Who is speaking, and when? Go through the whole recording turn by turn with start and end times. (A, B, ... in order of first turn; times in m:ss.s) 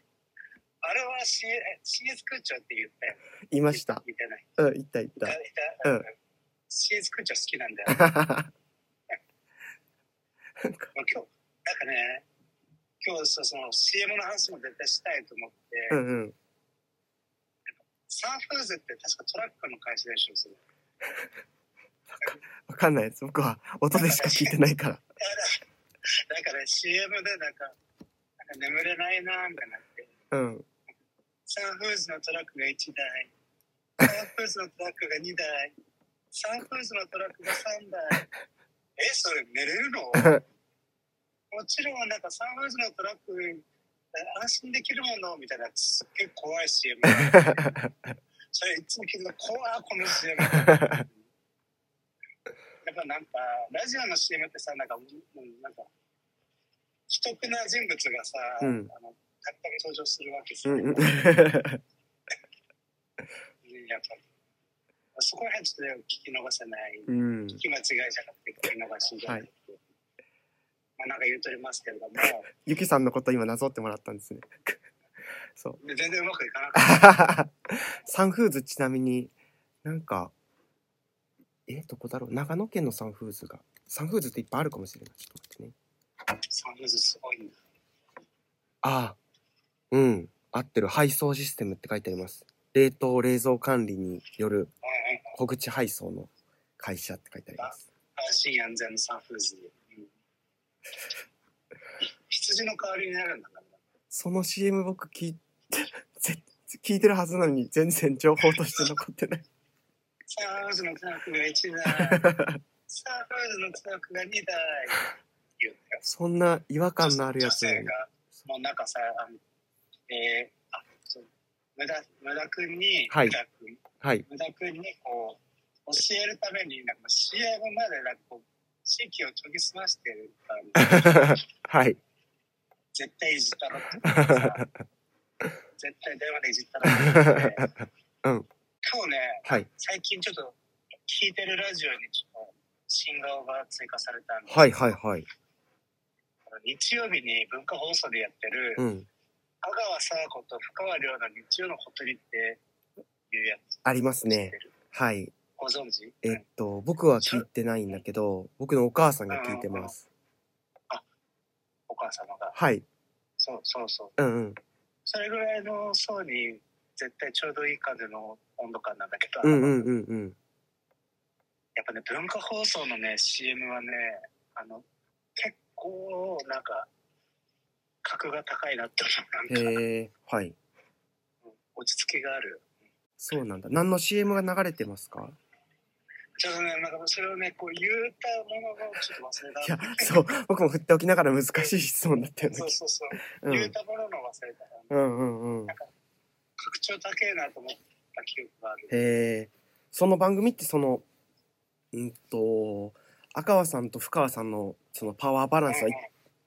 0:00.8-0:04.5 A
0:03.5-0:04.0 B
0:04.6-0:06.1 B
0:05.2-0:06.1 A
0:06.7-0:08.1 A
0:07.9-0:08.5 B
0:10.6-0:10.9 B
0:10.9-0:12.3 A
0:13.0-0:16.0 A
0:15.9-0:16.4 B
0:18.1-0:20.6 A
0:22.1-0:25.0 B
0:23.9-0:24.6 A
0:25.2-0:25.6 A
0:26.3-0:27.8 A
0:28.4-0:30.1 A
0:30.3-0:30.7 B
0:31.5-0:33.3 A
0:34.0-0:35.8 A
0:36.3-0:38.3 A
0:39.0-0:40.4 A
0:40.2-0:40.4 B
0:41.5-0:47.8 A
0:47.1-0:47.9 B
0:48.5-0:51.3 A
0:50.6-0:50.9 B
0:52.8-0:55.9 A
0:57.1-1:01.4 A
0:58.6-0:58.9 B
1:00.7-1:01.8 B
1:03.6-1:04.3 A
1:05.2-1:09.8 A
1:07.1-1:07.6 B
1:11.0-1:12.5 A
1:12.6-1:14.8 B
1:15.8-1:17.3 A
1:16.8-1:19.3 B
1:19.8-1:20.3 B
1:21.7-1:25.8 B
1:26.5-1:27.6 A
1:28.8-1:29.2 B
1:29.9-1:34.7 B
1:34.9-1:35.4 A
1:35.4-1:37.9 B
1:37.6-1:40.1 A
1:42.0-1:43.8 A
1:44.1-1:49.4 B
1:50.3-1:52.3 A
1:52.1-1:52.6 B
1:52.9-1:56.0 A
1:56.0-1:57.9 B
1:57.0-1:59.4 A
2:00.1-2:11.4 A
2:03.1-2:03.4 B
2:10.8-2:12.0 B
2:12.9-2:14.6 A
2:14.0-2:14.7 B
2:15.8-2:17.7 A
2:16.8-2:17.7 B
2:18.8-2:24.9 A
2:24.5-2:25.3 B
2:26.5-2:28.9 A
2:28.8-2:29.1 B
2:29.6-2:32.6 A
2:33.3-2:34.7 A
2:33.8-2:35.3 B
2:35.6-2:36.4 A
2:36.2-2:40.1 B
2:37.2-2:38.0 A
2:39.3-2:39.9 A
2:41.9-2:42.6 A
2:42.6-2:42.9 B
2:43.4-2:44.2 A
2:44.2-2:44.6 B
2:45.1-2:49.9 A
2:49.4-2:50.4 B
2:51.8-2:54.8 A
2:55.4-2:56.9 A
2:58.0-2:59.8 A
2:59.5-3:00.6 B
3:01.5-3:02.7 A
3:03.2-3:05.4 B
3:06.4-3:10.1 A
3:09.6-3:12.8 B
3:12.4-3:14.9 A
3:13.4-3:13.7 B
3:14.9-3:15.8 B
3:16.6-3:19.2 A
3:18.9-3:21.0 B
3:21.9-3:26.0 B
3:25.7-3:26.1 A